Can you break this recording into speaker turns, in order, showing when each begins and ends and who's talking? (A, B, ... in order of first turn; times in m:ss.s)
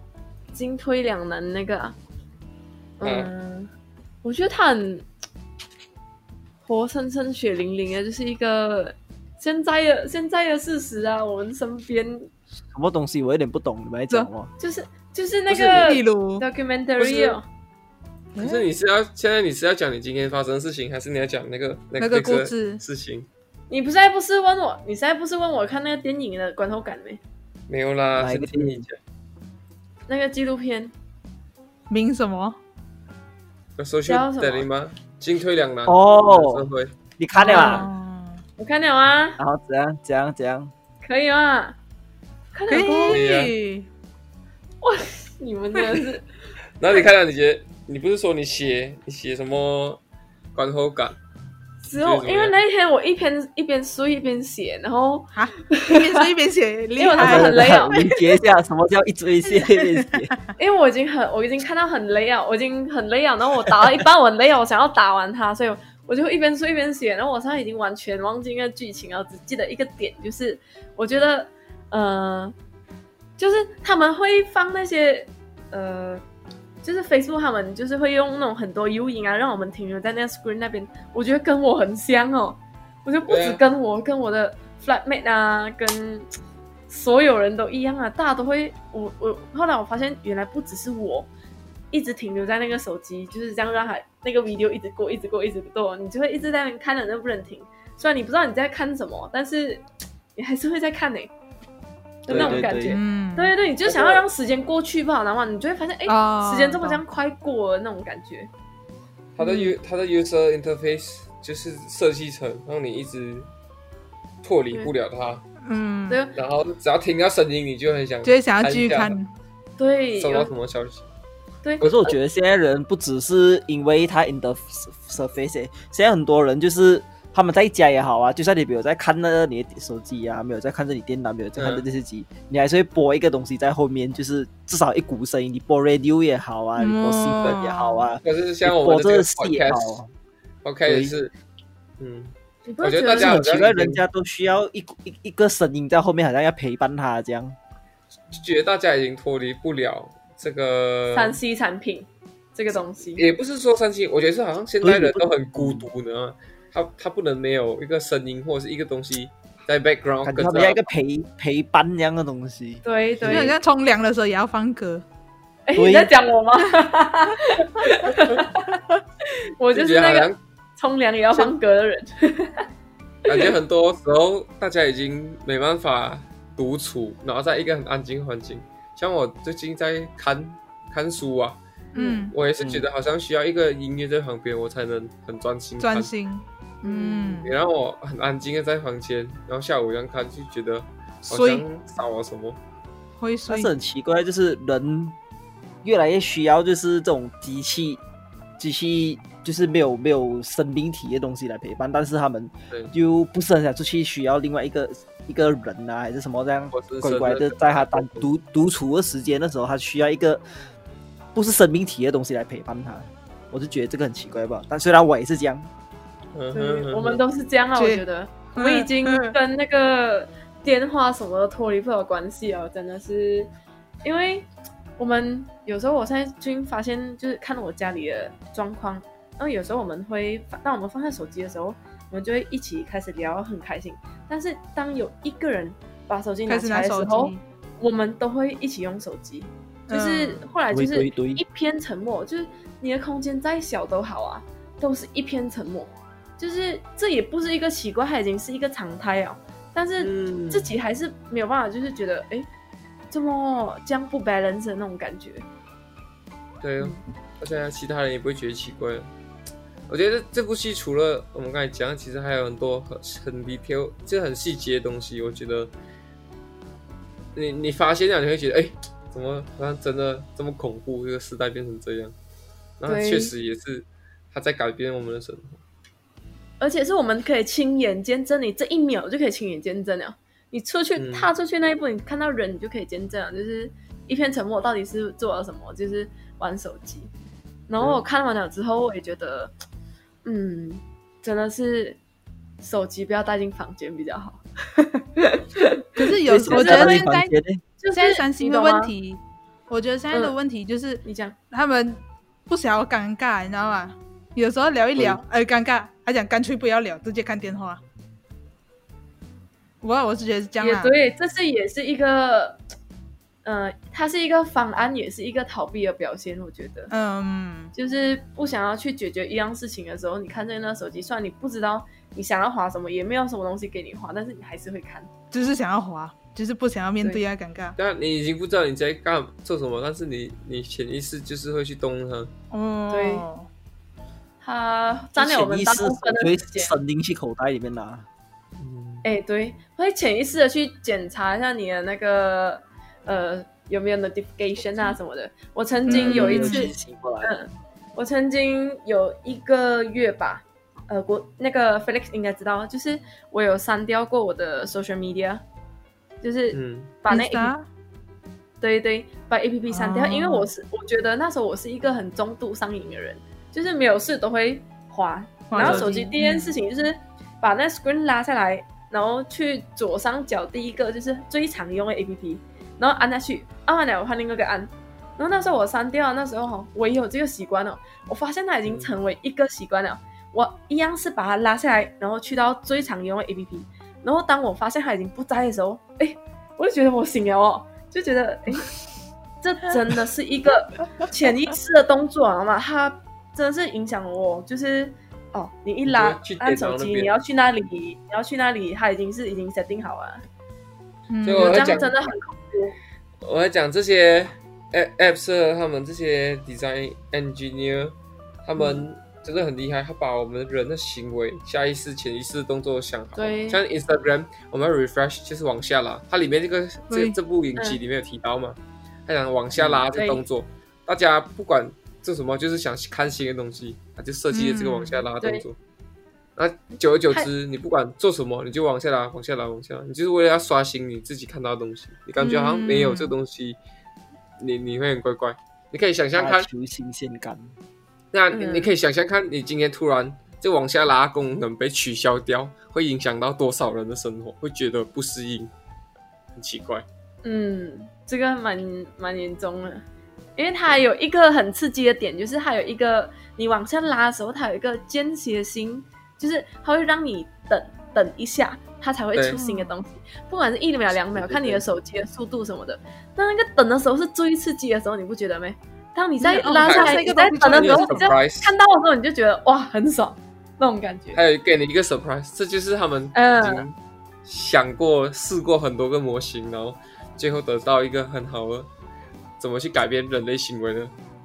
0:00.5-0:02.0 A
0:03.0-0:03.7 A
0:03.0-0:03.3 B
0:04.2-0:05.0 A
0:06.6-0:12.3 A
0:12.7-0:14.5 C
0:14.6-0:17.4 A
0:15.5-0:15.8 B
0:15.8-0:16.4 D
0:17.0-0:17.4 B
0:18.4-0:18.7 D
0:18.4-0:23.3 B
0:22.0-0:22.8 D
0:23.7-0:27.2 A
0:27.7-0:29.0 B
0:28.2-0:28.9 C
0:30.1-0:30.9 A
0:31.9-0:32.6 D
0:33.8-0:37.0 B
0:34.0-0:34.6 A
0:35.9-0:36.7 C
0:37.2-0:37.9 C
0:37.3-0:38.4 D
0:38.6-0:39.4 A
0:39.4-0:40.7 C
0:41.0-0:41.8 A
0:42.5-0:43.2 A
0:42.7-0:43.9 D
0:43.0-0:43.5 B
0:44.8-0:46.2 A
0:46.8-0:50.0 B
0:50.5-0:51.2 B
0:51.8-0:56.3 A
0:51.9-0:52.6 B
0:55.4-0:57.9 D
0:57.0-0:58.4 A
0:57.2-1:00.3 C
0:59.6-1:00.3 D
1:00.6-1:12.5 A
1:13.4-1:16.2 A
1:16.8-1:26.3 A
1:23.3-1:23.6 B
1:26.9-1:31.3 A
1:31.9-1:39.8 A
1:40.4-1:41.3 A
1:42.2-1:48.5 A
1:42.3-1:42.8 B
1:42.3-1:43.0 C
1:42.9-1:43.5 D
1:43.9-1:44.2 B
1:46.1-1:47.0 D
1:49.4-1:53.5 B
1:49.4-1:49.7 D
1:54.4-1:55.4 B
1:55.6-1:56.2 D
1:56.1-1:56.3 A
1:56.3-1:59.2 B
1:58.2-1:59.3 D
1:59.8-2:00.5 A
2:00.2-2:01.1 B
2:01.6-2:02.1 A
2:01.8-2:20.1 C
2:11.6-2:11.8 B
2:16.8-2:18.0 D
2:18.2-2:20.0 B
2:20.6-2:21.3 B
2:20.9-2:21.1 C
2:22.0-2:24.0 B
2:22.6-2:23.4 A
2:23.1-2:27.6 C
2:28.3-2:31.4 B
2:31.1-2:33.2 A
2:33.2-2:40.8 B
2:34.8-2:35.9 C
2:40.2-2:43.5 C
2:42.8-2:43.5 A
2:43.3-2:45.0 D
2:45.7-2:52.7 A
2:45.8-2:46.1 C
2:49.7-2:50.4 B
2:53.2-3:01.6 B
3:01.9-3:02.3 D
3:02.0-3:02.2 A
3:02.3-3:06.1 B
3:02.6-3:02.8 C
3:05.8-3:07.5 D
3:06.8-3:07.4 A
3:07.4-3:12.6 B
3:11.2-3:11.6 D
3:13.2-3:13.7 D
3:13.5-3:15.2 C
3:15.8-3:18.0 C
3:18.6-3:30.4 C
3:26.7-3:28.3 B
3:31.3-3:35.7 C
3:36.3-3:37.2 B
3:36.5-3:43.5 A
3:37.8-3:38.0 D
3:38.5-3:39.3 D
3:44.0-4:12.5 A
3:56.5-3:57.4 D
3:59.9-4:00.5 D
4:00.7-4:01.4 C
4:10.0-4:10.7 B
4:13.1-4:15.4 A
4:16.6-4:19.1 B
4:19.9-4:25.7 B
4:27.3-4:32.1 B
4:32.8-4:35.6 B
4:32.9-4:33.3 A
4:36.6-4:47.1 A
4:41.0-4:41.3 B
4:47.7-4:49.5 A
4:50.2-4:52.0 A
4:52.6-4:57.0 A
4:56.0-4:57.3 D
4:56.2-4:57.6 C
4:57.8-4:58.9 A
4:57.9-5:07.8 D
5:00.1-5:00.4 A
5:01.0-5:01.4 A
5:04.9-5:05.2 C
5:09.8-5:10.9 D
5:10.6-5:12.6 A
5:13.4-5:16.9 A
5:16.9-5:17.7 D
5:17.8-5:25.1 A
5:25.3-5:27.8 D
5:27.8-5:32.3 B
5:32.5-5:33.5 D
5:32.9-5:33.3 A
5:34.4-5:36.7 A
5:35.2-5:38.0 C
5:38.6-5:39.0 B
5:39.0-5:55.4 A
5:45.9-5:46.7 D
5:45.9-5:47.3 C
5:56.2-5:57.5 A
5:56.5-5:56.9 B
5:57.1-5:57.6 D
5:58.6-6:28.7 A
5:59.7-6:00.5 D
6:05.5-6:06.5 D
6:05.6-6:05.9 B
6:18.7-6:18.9 B
6:29.4-6:40.2 A
6:35.8-6:37.1 B
6:41.1-6:41.9 D
6:41.2-6:41.9 B
6:41.4-6:42.8 A
6:43.2-7:05.6 B
6:53.2-6:53.6 A
6:56.9-6:57.2 D
6:59.6-6:59.8 C
6:59.9-7:00.2 A
7:04.3-7:05.0 D
7:06.4-7:13.6 B
7:12.2-7:13.1 D
7:14.4-7:16.5 B
7:16.2-7:17.5 C
7:18.1-7:25.5 B
7:18.3-7:18.7 A
7:26.4-7:26.8 B
7:27.2-7:29.8 A
7:30.4-7:51.2 A
7:39.3-7:39.8 D
7:41.1-7:41.6 C
7:46.2-7:48.0 D
7:46.6-7:48.5 B
7:51.1-7:58.7 B
7:53.1-7:53.6 A
7:59.4-8:00.9 B